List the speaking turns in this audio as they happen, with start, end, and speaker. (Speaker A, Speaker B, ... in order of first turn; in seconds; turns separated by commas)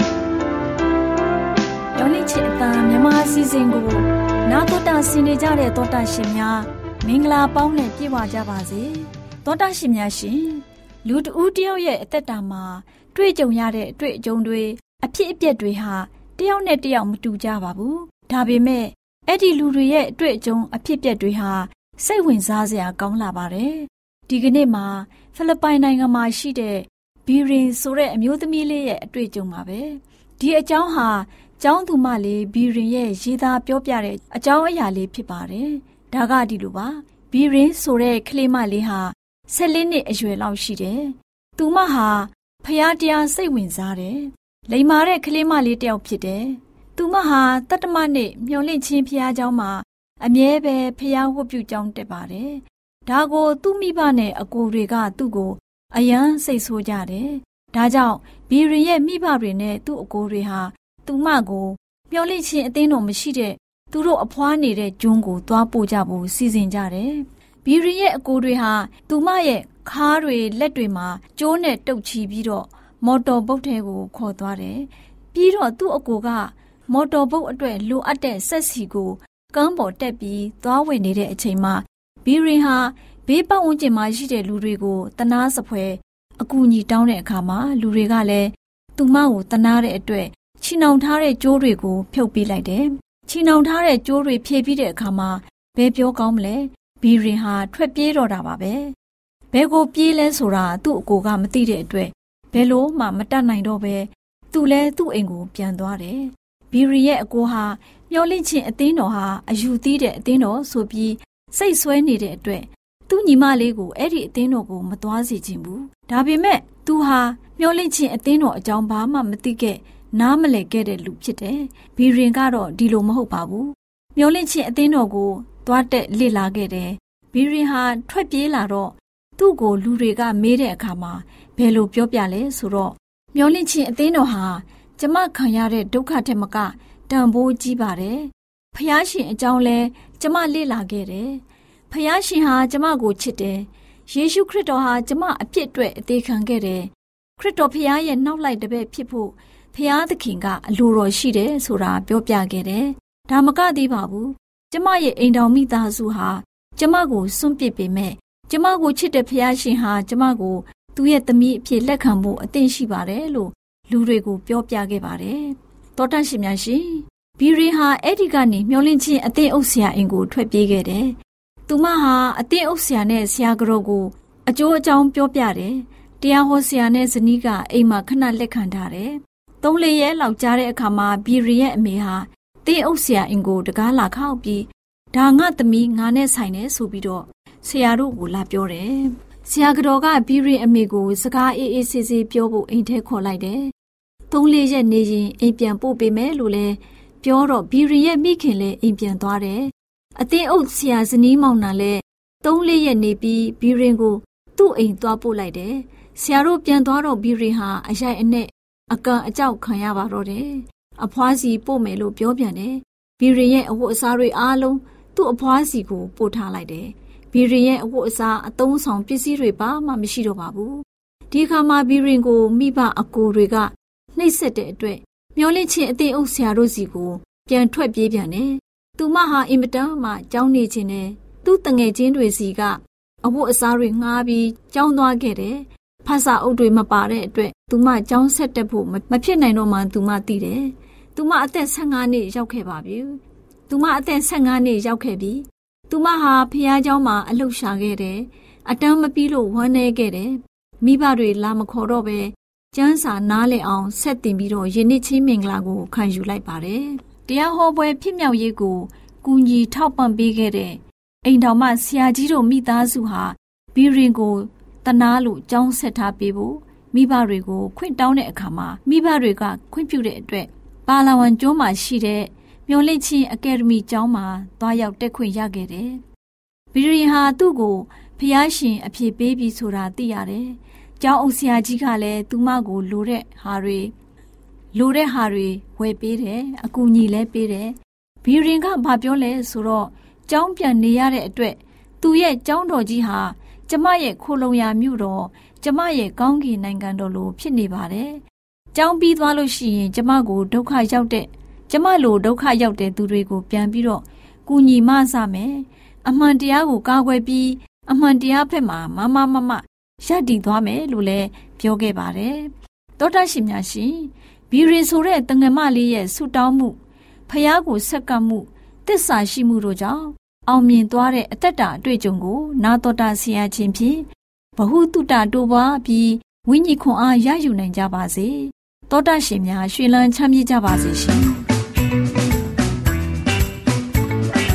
Speaker A: 1.9-98.9, Speaker A: 99.5-171.1, Speaker A: 171.7-193.7, Speaker A: 194.3-276.0, Speaker A: 276.7-283.9, Speaker A: 284.7-298.2, Speaker A: 298.7-324.1, Speaker A: 324.6-331.4